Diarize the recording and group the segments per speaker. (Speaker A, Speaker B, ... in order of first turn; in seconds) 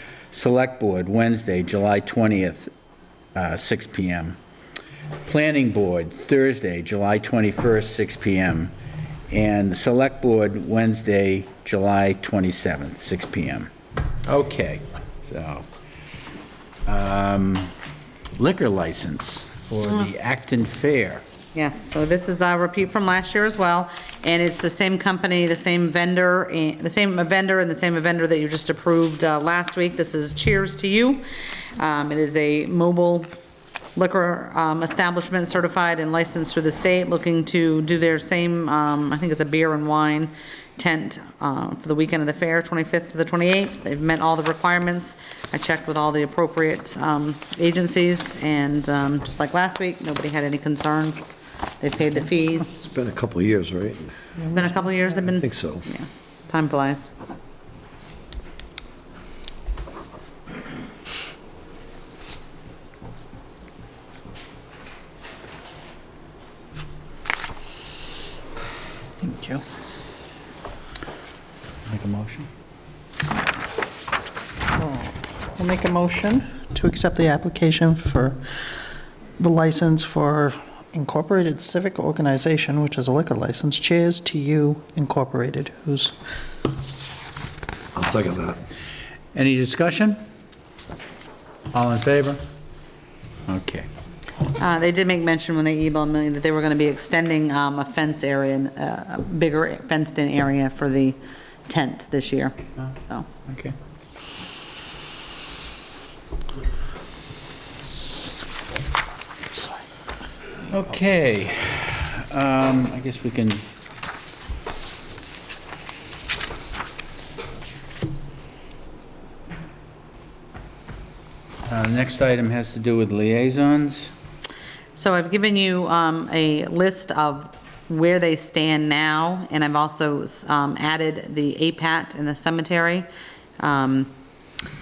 Speaker A: 0.3-2.7, 3.3-4.4, 5.2-8.7, 9.3-13.7, 14.2-15.7, 16.9-17.7, 18.4-21.2, 71.9-72.5, 89.3-90.2, 91.7-92.4, 93.5-93.9, 103.5-103.8, 110.7-113.6, 121.6-124.1
Speaker B: 21.5-31.2, 31.8-33.3, 34.0-52.8, 54.5-57.1, 94.5-101.2, 101.7-103.3, 125.0-133.1, 133.6-134.1
Speaker C: 52.8-54.1, 55.3-55.8, 87.9-88.6
Speaker D: 69.2-69.6, 74.6-78.8, 79.4-86.2